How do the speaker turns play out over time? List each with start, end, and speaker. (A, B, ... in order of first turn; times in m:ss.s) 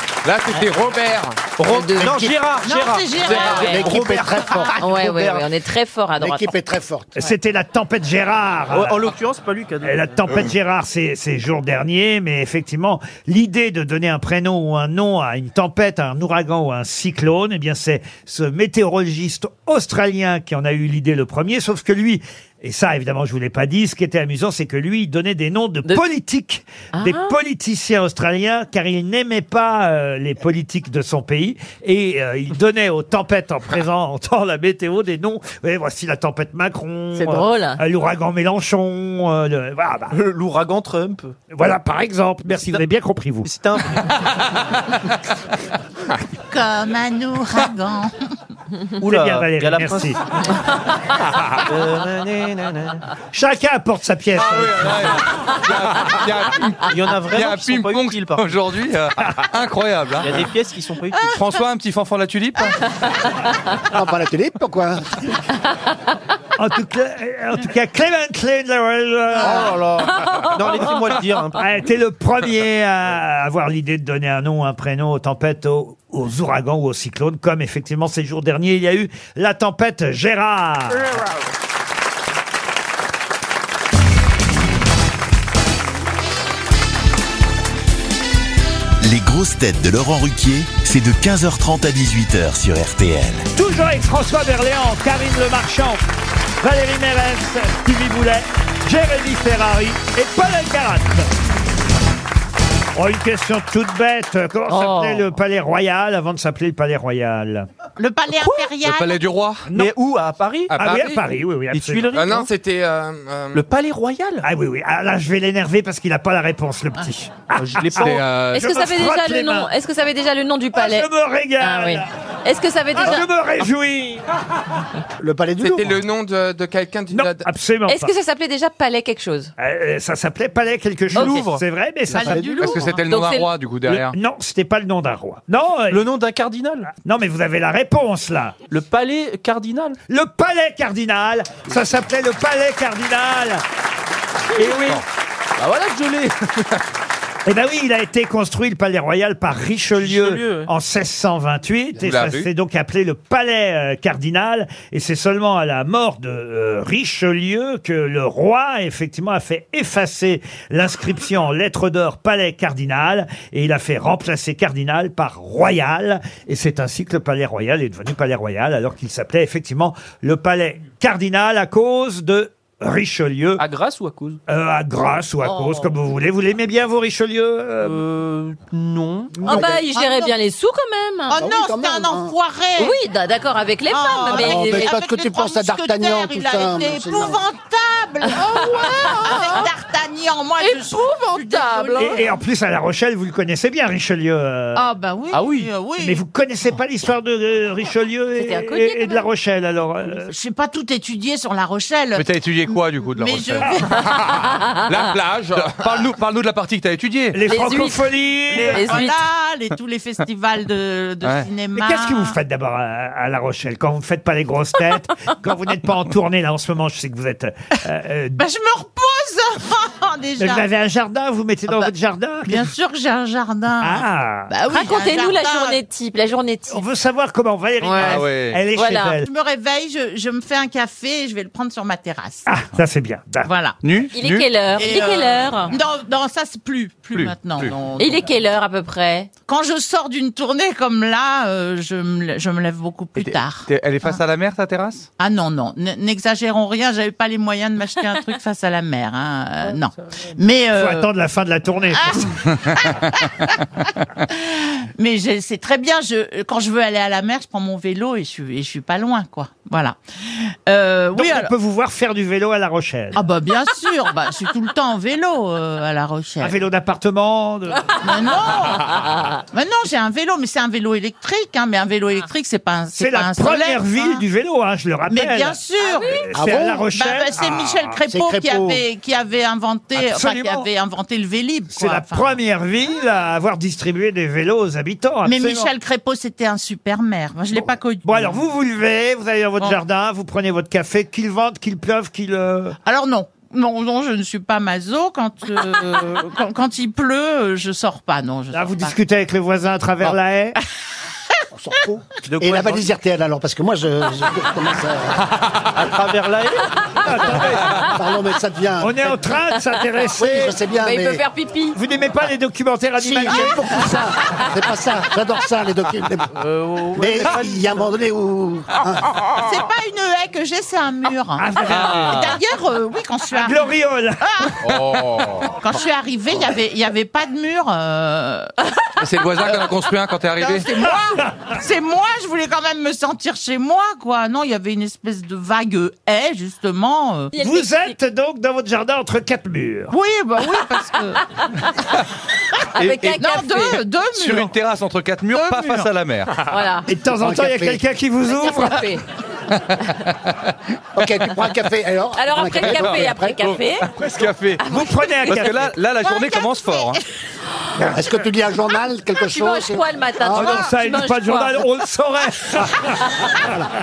0:00.2-0:01.4 A
0:01.6-0:05.5 B
0:01.6-0:02.4 C
0:02.6-0:04.8 D
0:03.4-0:03.9 C
0:03.6-0:04.8 E
0:04.8-0:06.5 C
0:06.2-0:07.1 E
0:07.2-0:09.0 F
0:08.7-0:10.2 B
0:09.8-0:40.1 F
0:26.9-0:27.4 C
0:37.1-0:37.8 C
0:40.1-0:41.4 B
0:41.5-0:43.5 F
0:42.5-0:42.8 B
0:43.4-0:44.6 B
0:46.5-0:48.3 D
0:49.0-0:50.4 B
0:49.0-0:50.2 F
0:51.6-0:53.0 B
0:53.3-0:55.2 F
0:54.3-1:00.4 G
0:56.9-0:58.8 B
1:00.2-1:01.4 B
1:01.2-1:02.8 G
1:03.9-1:05.2 E
1:06.6-1:09.8 F
1:09.4-1:11.8 B
1:10.2-1:10.9 C
1:11.6-1:21.1 F
1:29.0-1:33.5 H
1:33.5-1:36.0 F
1:36.6-1:41.3 F
1:42.9-1:47.7 F
1:44.7-1:45.3 C
1:48.0-1:49.2 D
1:48.8-1:49.7 G
1:49.7-1:50.7 B
1:50.7-1:51.2 A
1:50.7-1:52.1 F
1:51.7-1:52.5 B
1:52.1-1:53.6 A
1:53.5-1:54.4 B
1:54.4-1:59.7 F
1:57.6-1:58.2 B
1:58.0-1:58.6 G
1:58.5-2:01.1 C
2:00.7-2:02.1 F
2:01.6-2:03.3 C
2:03.0-2:04.2 F
2:05.2-2:06.0 E
2:05.6-2:07.4 A
2:07.1-2:08.1 F
2:07.9-2:09.5 C
2:09.6-2:12.6 F
2:11.1-2:11.5 C
2:11.1-2:11.6 B
2:12.1-2:12.8 E
2:12.2-2:12.8 D
2:12.4-2:13.5 C
2:12.6-2:14.1 G
2:13.9-2:16.0 F
2:15.9-2:16.9 B
2:16.9-2:18.5 F
2:18.7-2:20.0 B
2:20.1-2:23.6 F
2:24.6-2:25.0 F
2:25.6-2:26.8 B
2:27.4-2:53.6 F
2:30.0-2:30.7 B
2:32.0-2:32.5 A
2:53.6-2:54.4 B
2:54.5-2:58.0 F
2:55.4-2:55.9 C
2:57.8-2:59.4 B
2:59.4-2:59.7 F
2:59.4-3:01.4 C
2:59.6-3:00.3 D
3:01.3-3:03.0 D
3:01.3-3:02.3 E
3:02.8-3:05.0 C
3:03.9-3:12.3 D
3:04.3-3:07.4 E
3:08.2-3:09.7 C
3:10.6-3:12.3 C
3:12.0-3:14.8 F
3:14.7-3:16.2 D
3:15.3-3:15.7 B
3:16.0-3:20.3 F
3:18.4-3:19.3 C
3:20.3-3:24.0 D
3:22.2-3:23.8 G
3:24.0-3:26.0 A
3:25.5-3:27.4 G
3:27.3-3:29.0 F
3:27.4-3:29.2 C
3:28.5-3:32.4 D
3:31.8-3:38.4 F
3:38.4-3:40.6 D
3:40.4-3:42.7 F
3:42.4-3:45.8 D
3:43.8-3:44.5 F
3:44.7-3:46.8 C
3:46.7-3:49.3 F
3:47.8-3:49.2 C
3:48.0-3:48.6 G
3:49.2-3:52.5 D
3:52.4-3:53.5 F
3:53.4-3:53.8 D
3:53.8-3:54.5 G
3:54.1-3:55.7 C
3:54.8-3:58.3 D
3:57.1-3:57.7 G
3:58.0-3:59.3 C
3:59.5-4:04.1 D
4:03.2-4:05.0 G
4:05.2-4:11.1 D
4:10.7-4:12.3 F
4:11.9-4:13.6 D
4:14.3-4:21.5 D
4:21.1-4:23.2 F
4:23.1-4:26.6 D
4:26.4-4:27.8 F
4:28.0-4:28.9 D
4:28.9-4:29.2 C
4:29.5-4:34.2 D
4:33.0-4:37.9 F
4:35.1-4:42.3 D
4:35.8-4:36.2 C
4:36.3-4:36.8 E
4:38.1-4:38.8 E
4:39.9-4:40.6 F
4:41.7-4:45.7 F
4:45.2-4:48.4 D
4:48.0-4:52.8 F
4:52.8-4:59.0 D
4:58.5-5:00.6 F
5:01.5-5:05.2 E
5:02.3-5:02.9 B
5:05.7-5:07.5 B
5:07.0-5:07.5 F
5:07.1-5:09.2 E
5:08.8-5:10.6 F
5:10.2-5:11.2 E
5:10.7-5:11.8 C
5:11.7-5:13.8 F
5:13.0-5:16.3 E
5:16.3-5:17.9 B
5:17.0-5:19.1 E
5:19.4-5:23.7 D
5:21.4-5:22.2 F
5:21.7-5:22.4 G
5:23.3-5:24.4 F
5:24.2-5:24.5 D
5:24.6-5:25.6 A
5:25.6-5:28.5 D
5:29.0-5:30.7 G
5:29.4-5:29.8 D
5:30.4-5:37.3 D
5:37.3-5:37.9 C
5:37.4-5:39.9 F
5:39.9-5:41.2 D
5:42.7-5:43.8 C
5:42.8-5:43.1 G
5:43.0-5:44.5 D
5:44.1-5:46.3 G
5:45.3-5:45.8 D
5:46.4-5:46.9 C
5:46.9-5:48.9 F
5:47.2-5:47.8 E
5:48.3-5:49.0 C
5:51.0-5:53.4 E
5:52.1-5:53.9 C
5:52.6-5:54.6 G
5:54.0-5:55.7 F
5:55.2-5:57.0 G
5:56.0-5:57.0 D
5:57.8-6:00.6 E
5:59.2-6:01.6 C
6:00.3-6:03.0 F